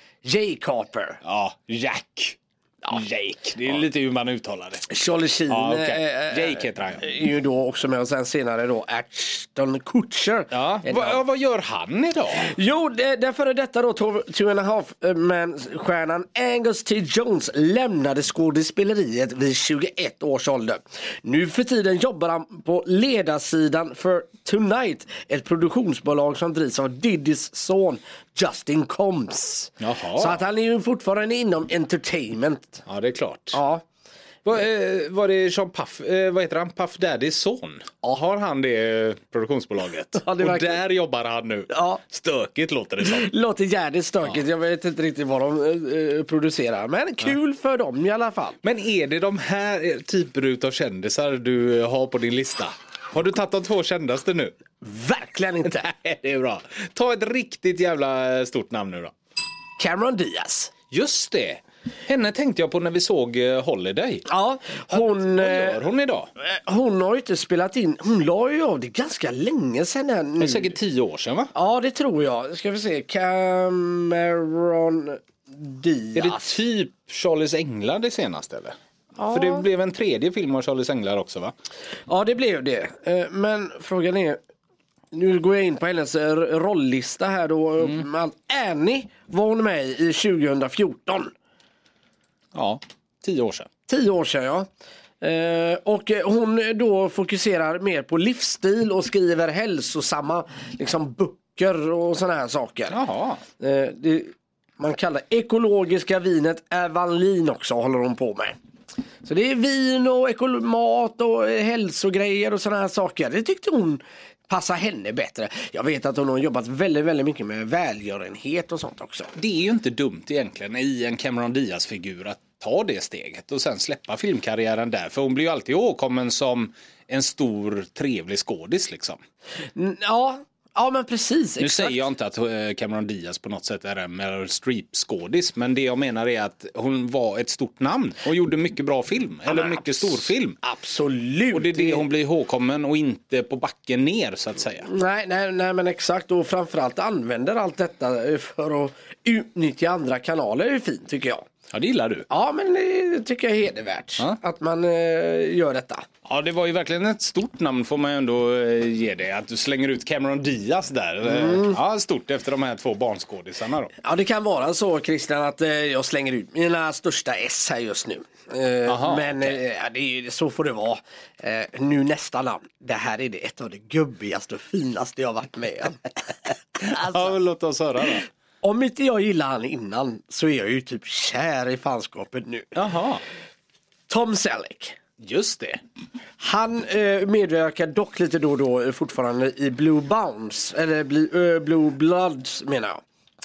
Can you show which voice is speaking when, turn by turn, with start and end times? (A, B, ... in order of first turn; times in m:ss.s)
0:00.2-0:01.2 A
0:01.2-0:04.9 B
0:04.9-0:11.2 A
0:05.5-0:07.0 B
0:10.5-0:12.5 B
0:12.4-0:32.8 A
0:29.8-0:30.4 B
0:32.8-0:33.6 B
0:33.5-0:33.8 A
0:34.4-0:43.3 B
0:40.2-0:40.8 A
0:41.7-0:42.0 A
0:43.0-0:48.6 A
0:48.6-0:54.5 B
0:54.8-0:55.9 A
0:55.8-0:59.1 B
0:59.8-1:00.7 A
1:00.9-1:04.2 B
1:04.3-1:05.8 A
1:04.9-1:06.3 B
1:06.4-1:10.8 A
1:10.4-1:11.5 B
1:11.5-1:16.6 A
1:16.1-1:21.5 B
1:19.2-1:19.6 A
1:22.1-1:24.4 A
1:25.1-1:31.3 A
1:32.5-1:33.7 B
1:33.9-1:34.7 A
1:35.2-1:43.0 A
1:42.9-1:43.4 B
1:43.6-1:48.6 A
1:49.2-1:59.3 A
1:59.3-2:09.2 B
2:09.7-2:12.0 A
2:11.6-2:20.6 B
2:19.5-2:22.0 A
2:21.5-2:24.9 B
2:24.8-2:31.5 A
2:31.7-2:32.3 B
2:32.3-2:36.0 A
2:36.2-2:43.9 B
2:41.2-2:41.8 A
2:44.0-2:57.3 A
2:48.8-2:49.6 B
2:56.8-2:58.2 B
2:58.6-3:02.8 A
3:02.7-3:03.2 B
3:04.1-3:05.0 A
3:05.2-3:05.8 B
3:06.4-3:13.0 A